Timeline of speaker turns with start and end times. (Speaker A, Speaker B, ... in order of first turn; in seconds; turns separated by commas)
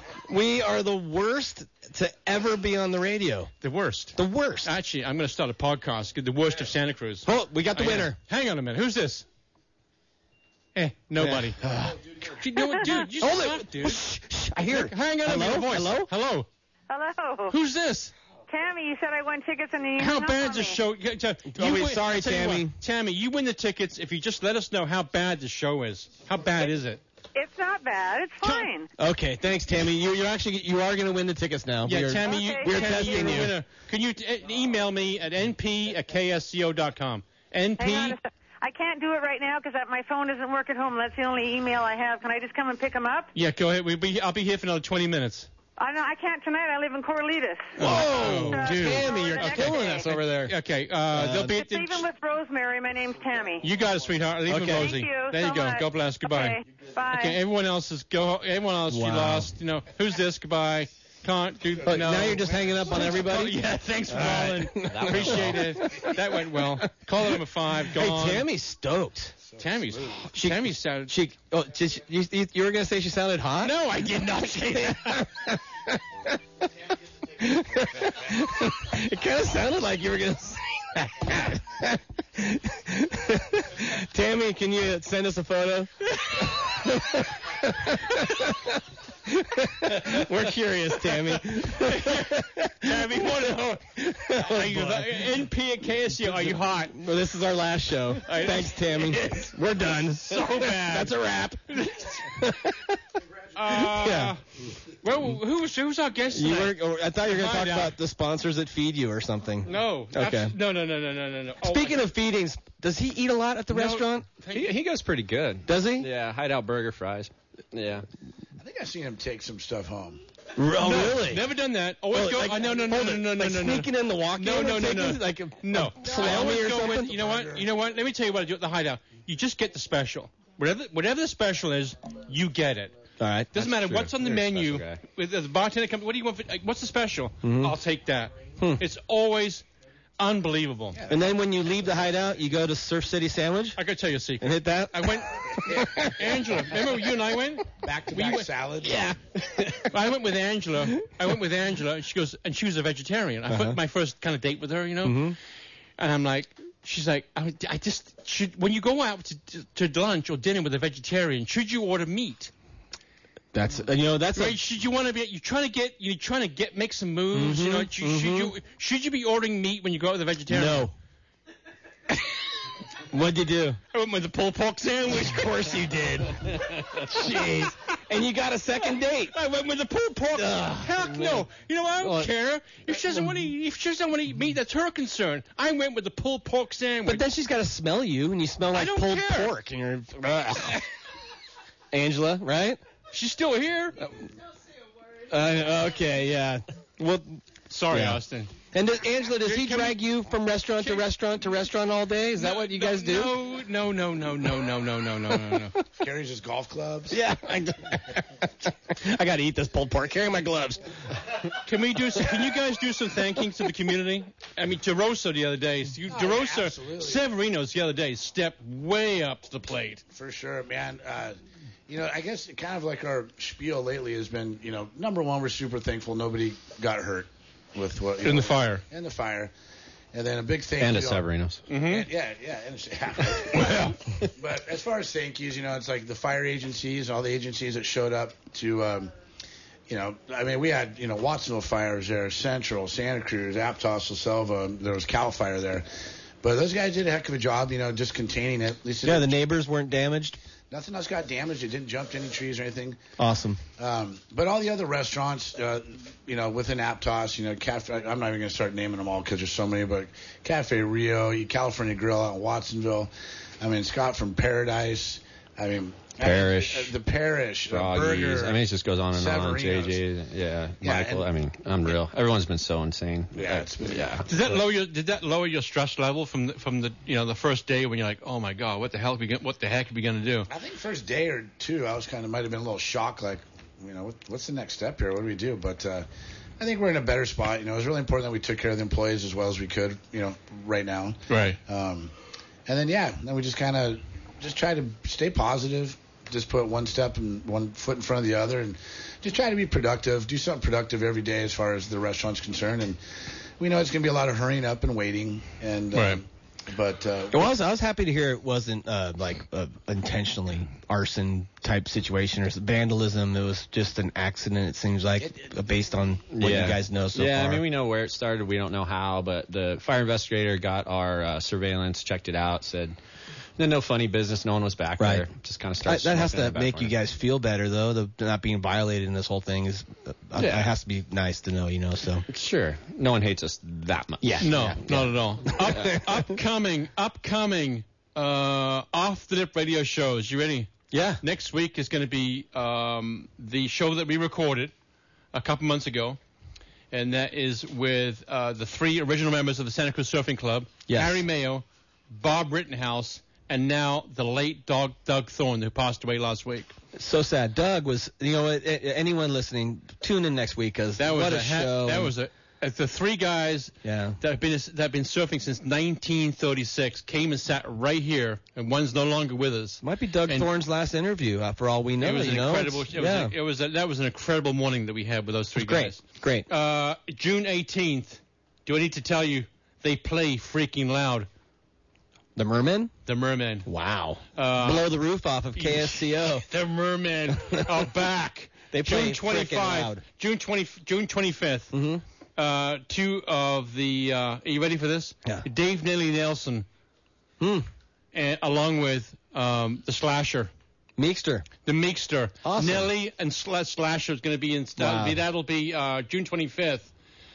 Speaker A: 0.3-3.5, Speaker B: 3.6-9.2, Speaker A: 4.2-4.7, Speaker A: 7.2-8.2, Speaker B: 10.8-11.6, Speaker A: 11.2-12.0, Speaker B: 12.3-14.0, Speaker A: 13.2-16.1, Speaker B: 14.7-16.5, Speaker C: 16.9-17.5, Speaker B: 17.5-18.1, Speaker C: 18.5-20.8, Speaker B: 20.0-27.0, Speaker A: 21.5-22.8, Speaker C: 27.4-28.9, Speaker A: 29.0-33.6, Speaker B: 31.9-38.2, Speaker C: 32.2-33.4, Speaker C: 37.8-43.3, Speaker B: 43.4-45.5, Speaker C: 45.8-50.1, Speaker A: 47.8-50.5, Speaker B: 47.8-52.0, Speaker A: 51.1-51.5, Speaker C: 51.5-53.6, Speaker B: 53.6-56.6, Speaker A: 54.5-54.9, Speaker C: 54.8-57.4, Speaker B: 57.1-68.5, Speaker A: 58.9-59.5, Speaker A: 61.8-69.3, Speaker D: 64.8-65.7, Speaker E: 69.5-70.0, Speaker B: 69.6-71.1, Speaker A: 70.3-73.8, Speaker B: 73.6-75.3, Speaker A: 74.7-76.3, Speaker A: 77.3-93.3, Speaker B: 91.1-97.0, Speaker A: 94.0-95.3, Speaker A: 96.2-101.7, Speaker B: 98.2-99.5, Speaker B: 100.2-101.2, Speaker B: 101.7-102.3, Speaker A: 102.3-103.0, Speaker B: 103.5-108.0, Speaker A: 103.7-104.3, Speaker A: 106.3-110.5, Speaker B: 109.7-112.0, Speaker A: 111.6-114.3, Speaker B: 113.7-114.7, Speaker D: 114.5-118.1, Speaker A: 115.7-116.1, Speaker E: 118.6-120.2, Speaker A: 120.6-121.4, Speaker B: 120.8-132.9, Speaker A: 122.1-127.1, Speaker E: 127.0-127.7, Speaker A: 133.2-133.5, Speaker B: 133.5-139.6, Speaker D: 133.6-135.0, Speaker A: 137.4-137.7, Speaker A: 138.6-138.8, Speaker B: 140.2-141.0, Speaker E: 140.9-141.3, Speaker A: 141.1-143.8, Speaker B: 143.8-148.5, Speaker A: 144.4-146.3, Speaker E: 147.8-149.1, Speaker A: 148.8-149.9, Speaker B: 149.8-155.4, Speaker A: 153.5-153.8, Speaker A: 155.0-155.4, Speaker B: 156.0-162.5, Speaker A: 163.5-164.6, Speaker B: 164.3-170.9, Speaker A: 167.3-168.5, Speaker A: 170.5-170.9, Speaker A: 173.1-173.8, Speaker B: 173.9-176.5, Speaker A: 175.1-179.4, Speaker B: 177.0-177.6, Speaker B: 179.3-187.3, Speaker A: 180.3-181.5, Speaker A: 182.0-182.3, Speaker A: 187.1-190.8, Speaker B: 188.7-189.5, Speaker A: 191.9-192.8, Speaker B: 193.1-194.0, Speaker A: 195.3-198.2, Speaker B: 197.7-198.5, Speaker A: 198.7-203.3, Speaker B: 199.3-200.0, Speaker B: 200.8-201.1, Speaker B: 202.4-205.8, Speaker E: 206.0-207.2, Speaker A: 207.1-210.9, Speaker B: 211.6-220.0, Speaker E: 216.1-217.2, Speaker E: 220.1-229.5, Speaker B: 228.2-228.8, Speaker E: 230.1-239.1, Speaker D: 230.8-231.6, Speaker B: 231.7-232.1, Speaker B: 233.5-233.9, Speaker E: 239.9-245.9, Speaker E: 246.4-249.4, Speaker A: 249.0-250.4, Speaker E: 250.7-253.0, Speaker A: 253.2-253.6, Speaker E: 253.8-270.0, Speaker D: 266.2-266.9, Speaker D: 267.7-274.3, Speaker E: 270.8-271.3, Speaker E: 273.3-274.2, Speaker B: 274.3-280.5, Speaker E: 280.5-286.1, Speaker E: 286.6-292.1, Speaker B: 291.3-291.6, Speaker E: 292.7-303.0, Speaker E: 303.6-307.5, Speaker B: 305.9-306.2, Speaker A: 307.3-317.6, Speaker E: 315.2-315.5, Speaker D: 316.3-322.9, Speaker D: 323.6-326.9, Speaker A: 325.0-325.3, Speaker A: 325.9-332.2, Speaker D: 330.4-330.7, Speaker D: 332.3-334.8, Speaker A: 334.2-336.4, Speaker B: 334.4-340.7, Speaker A: 340.9-341.2, Speaker B: 341.2-344.7, Speaker B: 345.3-346.2, Speaker B: 346.9-356.7, Speaker A: 350.9-351.2, Speaker A: 356.9-362.1, Speaker B: 361.0-370.5, Speaker A: 363.8-364.2, Speaker A: 369.8-373.3, Speaker B: 372.0-381.3, Speaker A: 375.6-376.5, Speaker A: 382.4-382.9, Speaker B: 383.1-383.7, Speaker A: 383.7-386.4, Speaker B: 384.4-384.9, Speaker B: 385.6-391.7, Speaker A: 388.7-390.0, Speaker A: 391.7-392.0, Speaker B: 392.4-396.6, Speaker A: 397.4-397.7, Speaker B: 398.1-400.5, Speaker A: 401.0-401.5, Speaker B: 401.7-406.9, Speaker A: 402.4-402.9, Speaker A: 404.8-405.2